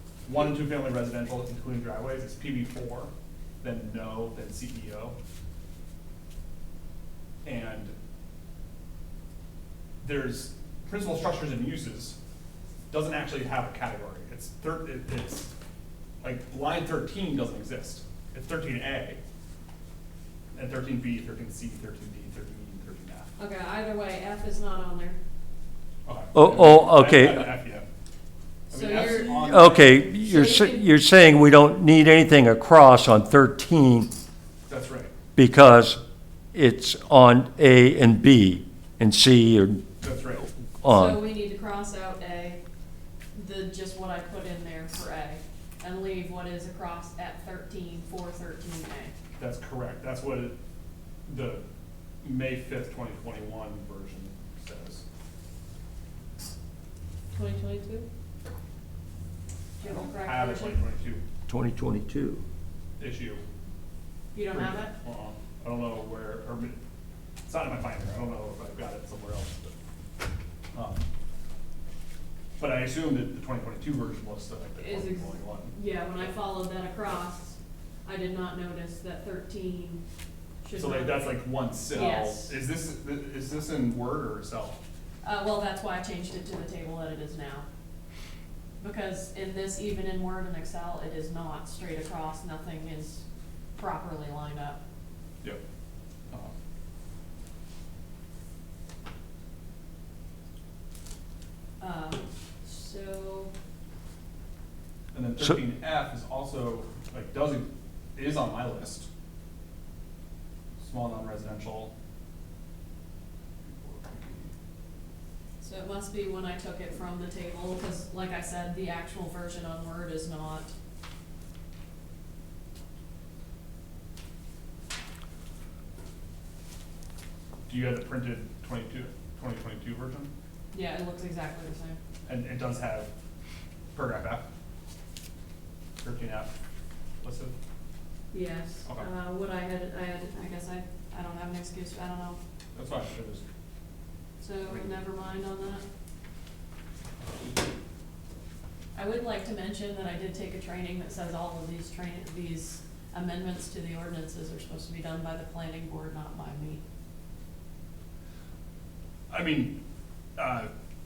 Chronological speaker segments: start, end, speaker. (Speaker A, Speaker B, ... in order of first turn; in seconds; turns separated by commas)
Speaker A: 0.2-3.1, Speaker A: 3.6-5.2, Speaker A: 7.5-7.9, Speaker A: 10.0-12.2, Speaker A: 12.9-15.5, Speaker A: 16.2-19.2, Speaker A: 20.6-23.3, Speaker B: 23.4-25.2, Speaker A: 26.1-27.9, Speaker C: 26.3-27.5, Speaker B: 28.7-30.9, Speaker A: 28.7-30.1, Speaker C: 29.5-34.1, Speaker A: 34.7-35.1, Speaker C: 35.4-36.0, Speaker C: 36.5-39.8, Speaker A: 40.0-40.5, Speaker C: 40.8-41.2, Speaker B: 40.9-42.6, Speaker B: 43.4-49.1, Speaker A: 49.4-50.5, Speaker A: 51.3-51.6, Speaker A: 52.2-55.0, Speaker B: 57.3-58.1, Speaker B: 59.8-60.8, Speaker A: 59.8-61.2, Speaker C: 61.5-62.4, Speaker A: 63.0-63.4, Speaker B: 64.3-64.9, Speaker A: 64.5-66.8, Speaker A: 67.5-69.7, Speaker A: 70.7-71.0, Speaker A: 72.6-76.3, Speaker B: 74.8-80.0, Speaker B: 80.6-81.4, Speaker A: 80.8-84.8, Speaker B: 81.9-82.6, Speaker B: 85.2-87.7, Speaker B: 88.8-93.2, Speaker B: 93.8-94.8, Speaker B: 101.8-103.5, Speaker A: 105.1-109.1, Speaker A: 110.8-111.9, Speaker A: 113.6-114.5, Speaker B: 115.6-120.7, Speaker A: 127.7-130.3, Speaker B: 130.7-132.0, Speaker A: 132.3-133.1, Speaker A: 133.9-134.5, Speaker A: 136.0-136.5, Speaker A: 137.2-137.6, Speaker B: 138.3-142.4, Speaker A: 142.8-143.4, Speaker B: 144.4-145.8, Speaker A: 144.7-144.9, Speaker B: 148.9-156.8, Speaker A: 159.3-159.8, Speaker A: 160.4-160.7